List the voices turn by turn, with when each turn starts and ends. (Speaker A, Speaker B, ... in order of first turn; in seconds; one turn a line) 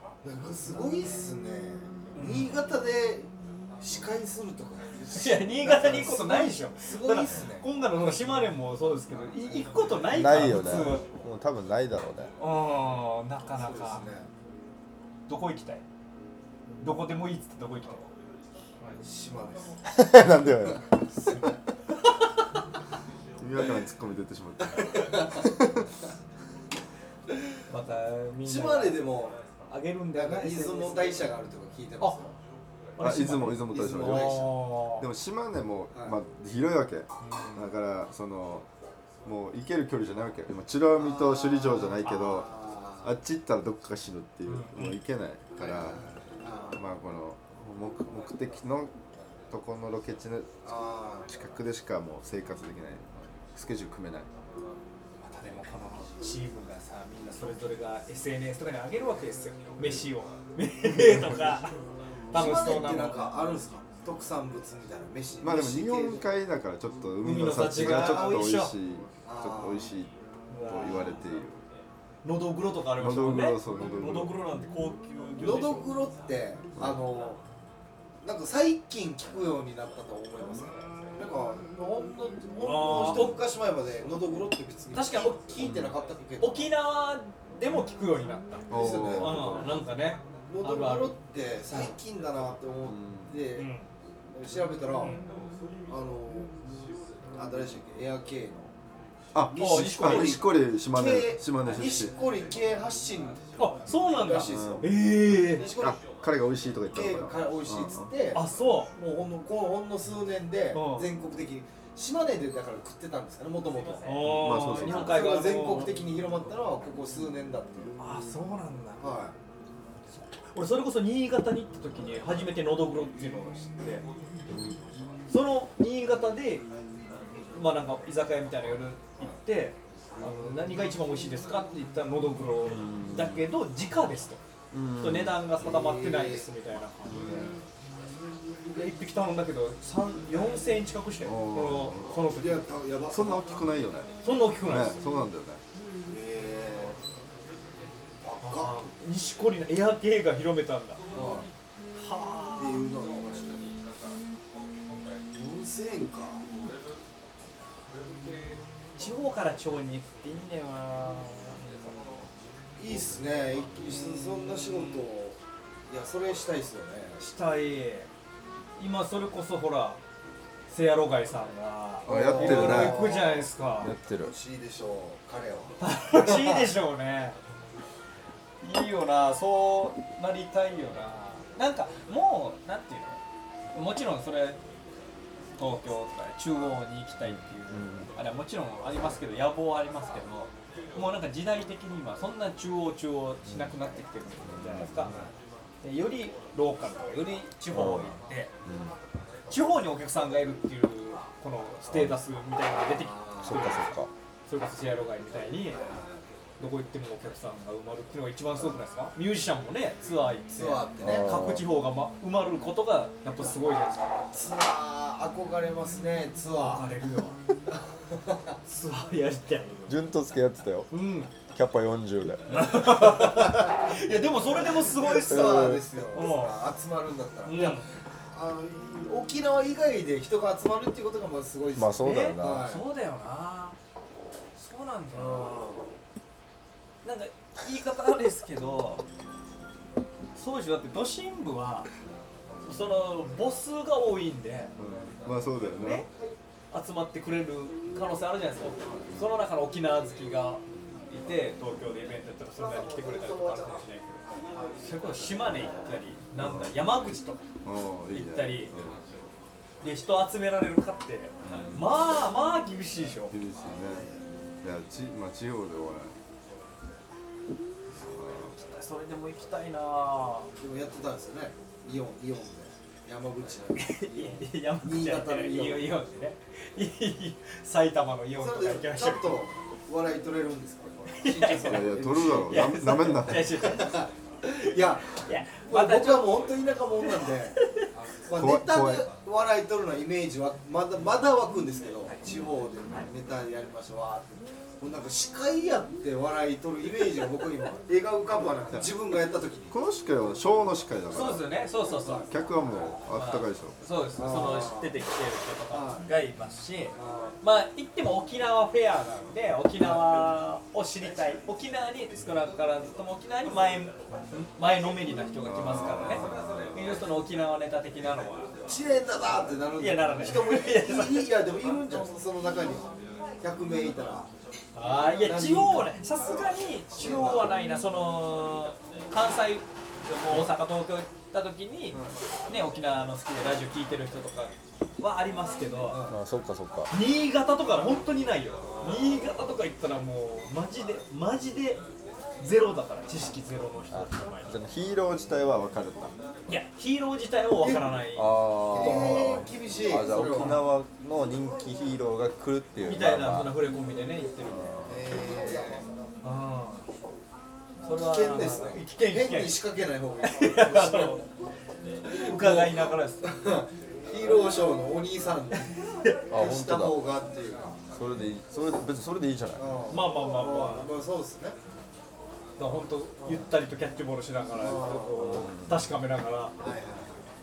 Speaker A: 0.2-7.7
Speaker B: 2.1-2.5
Speaker B: 5.1-11.1
Speaker C: 10.1-12.3
Speaker B: 12.4-14.1
Speaker A: 13.5-14.3
Speaker B: 15.3-15.8
Speaker B: 16.8-18.1
Speaker A: 18.9-19.8
Speaker C: 19.9-21.1
Speaker A: 20.6-21.6
Speaker C: 23.4-25.9
Speaker A: 24.9-25.4
Speaker B: 27.7-29.1
Speaker A: 28.4-29.4
Speaker B: 29.7-31.3
Speaker A: 30.1-32.3
Speaker B: 33.0-35.1
Speaker C: 33.0-38.7
Speaker A: 33.6-34.6
Speaker B: 37.2-37.7
Speaker C: 39.2-46.0
Speaker A: 41.0-43.1
Speaker B: 44.5-45.0
Speaker A: 45.6-46.8
Speaker C: 46.7-49.0
Speaker C: 49.5-50.6
Speaker A: 50.6-51.3
Speaker C: 51.3-54.3
Speaker B: 55.2-61.8
Speaker C: 61.0-61.4
Speaker A: 62.3-66.2
Speaker B: 62.3-63.2
Speaker C: 65.4-70.1
Speaker B: 67.2-68.7
Speaker A: 69.2-69.9
Speaker B: 70.5-71.2
Speaker C: 70.6-71.6
Speaker B: 72.2-75.9
Speaker C: 73.0-74.4
Speaker A: 75.4-77.4
Speaker A: 78.2-86.7
Speaker B: 82.6-83.4
Speaker B: 84.9-85.5
Speaker C: 85.6-86.0
Speaker B: 86.4-91.2
Speaker A: 88.7-89.8
Speaker C: 88.7-89.8
Speaker A: 90.5-93.7
Speaker C: 92.8-93.3
Speaker B: 93.5-93.9
Speaker A: 94.3-95.2
Speaker B: 95.0-95.3
Speaker A: 95.9-96.5
Speaker A: 97.3-98.7
Speaker C: 99.3-102.1
Speaker A: 99.5-106.0
Speaker B: 99.5-100.4
Speaker B: 103.6-105.7
Speaker C: 104.5-104.9
Speaker C: 105.8-108.1
Speaker A: 106.9-114.2
Speaker B: 108.3-108.9
Speaker B: 110.7-111.1
Speaker B: 114.0-116.0
Speaker C: 114.2-115.2
Speaker A: 114.7-118.0
Speaker B: 118.0-119.0
Speaker A: 119.0-119.4
Speaker B: 120.2-124.0
Speaker C: 124.5-124.8
Speaker B: 125.3-126.7
Speaker B: 127.5-134.4
Speaker C: 132.7-133.4
Speaker C: 134.7-135.4
Speaker B: 135.0-137.4
Speaker A: 135.6-136.5
Speaker C: 137.1-137.5
Speaker B: 138.7-142.7
Speaker C: 141.2-142.2
Speaker A: 142.3-143.4
Speaker C: 143.1-144.1
Speaker B: 144.2-145.0
Speaker C: 144.7-145.6
Speaker A: 146.1-147.0
Speaker A: 148.2-148.9
Speaker B: 148.4-151.0
Speaker A: 151.1-151.5
Speaker B: 152.0-152.8
Speaker A: 152.6-153.8
Speaker A: 155.3-156.4
Speaker B: 159.0-162.0
Speaker A: 162.8-167.2
Speaker B: 163.9-165.1
Speaker B: 167.2-168.1
Speaker B: 168.8-170.0
Speaker B: 170.7-173.9
Speaker C: 172.1-173.2
Speaker A: 172.1-173.4
Speaker C: 173.8-174.3
Speaker A: 174.2-176.7
Speaker B: 175.8-177.4
Speaker B: 178.6-183.2
Speaker B: 183.7-184.6
Speaker B: 185.6-195.1
Speaker C: 187.2-188.1
Speaker C: 193.5-193.8
Speaker C: 194.4-195.3
Speaker B: 195.8-198.5
Speaker C: 197.7-199.0
Speaker B: 199.5-203.9
Speaker A: 202.9-203.7
Speaker C: 203.4-204.1
Speaker B: 204.5-205.8
Speaker A: 205.7-206.1
Speaker B: 206.6-214.2
Speaker A: 210.5-211.3
Speaker C: 211.0-211.7
Speaker A: 214.3-216.9
Speaker B: 216.6-217.4
Speaker A: 217.7-218.6
Speaker B: 218.7-220.0
Speaker C: 219.9-220.9
Speaker B: 220.9-221.3
Speaker C: 221.5-222.8
Speaker B: 222.5-226.6
Speaker A: 223.0-232.8
Speaker C: 225.3-225.8
Speaker B: 227.4-227.9
Speaker C: 231.8-232.7
Speaker B: 232.0-233.8
Speaker B: 234.6-235.6
Speaker A: 235.1-235.9
Speaker B: 237.0-239.0
Speaker B: 240.3-241.9
Speaker B: 242.6-244.7
Speaker C: 244.8-246.1
Speaker B: 245.7-246.1
Speaker B: 246.7-254.2
Speaker A: 254.3-254.6
Speaker B: 254.8-257.4
Speaker C: 256.4-256.7
Speaker C: 257.6-259.0
Speaker B: 258.1-258.7
Speaker B: 259.8-263.4
Speaker C: 261.4-261.9
Speaker C: 263.3-264.1
Speaker A: 263.8-264.2
Speaker C: 264.6-266.1
Speaker C: 268.0-268.5
Speaker B: 268.5-270.5
Speaker A: 270.6-275.9
Speaker B: 273.8-279.4
Speaker A: 278.4-282.6
Speaker B: 281.1-284.0
Speaker C: 281.6-283.6
Speaker A: 283.6-299.7
Speaker B: 285.1-286.5
Speaker B: 287.1-287.9
Speaker C: 288.3-289.1
Speaker C: 299.7-301.5
Speaker B: 301.1-302.3
Speaker C: 302.3-303.8
Speaker B: 303.1-318.5
Speaker A: 304.1-305.0
Speaker A: 305.7-306.1
Speaker A: 306.9-307.4
Speaker C: 315.4-316.8
Speaker A: 318.7-324.3
Speaker B: 319.8-321.3
Speaker B: 324.8-336.1
Speaker A: 325.1-325.9
Speaker A: 326.9-327.5
Speaker A: 335.9-336.2
Speaker C: 336.1-336.9
Speaker B: 336.9-341.8
Speaker A: 338.6-339.2
Speaker B: 342.4-344.5
Speaker C: 343.9-346.1
Speaker B: 346.5-349.4
Speaker A: 347.6-347.9
Speaker C: 348.1-353.6
Speaker A: 348.7-350.6
Speaker B: 350.3-350.6
Speaker B: 352.8-354.8
Speaker C: 354.5-355.1
Speaker A: 354.9-355.9
Speaker B: 356.2-356.9
Speaker B: 357.8-359.6
Speaker A: 358.0-361.2
Speaker B: 360.2-361.2
Speaker A: 362.1-367.8
Speaker B: 362.1-363.2
Speaker B: 365.9-366.2
Speaker C: 366.3-367.0
Speaker C: 367.9-369.7
Speaker A: 369.6-371.6
Speaker B: 369.9-370.9
Speaker B: 372.6-376.6
Speaker A: 374.5-375.4
Speaker C: 375.2-375.8
Speaker A: 376.6-377.2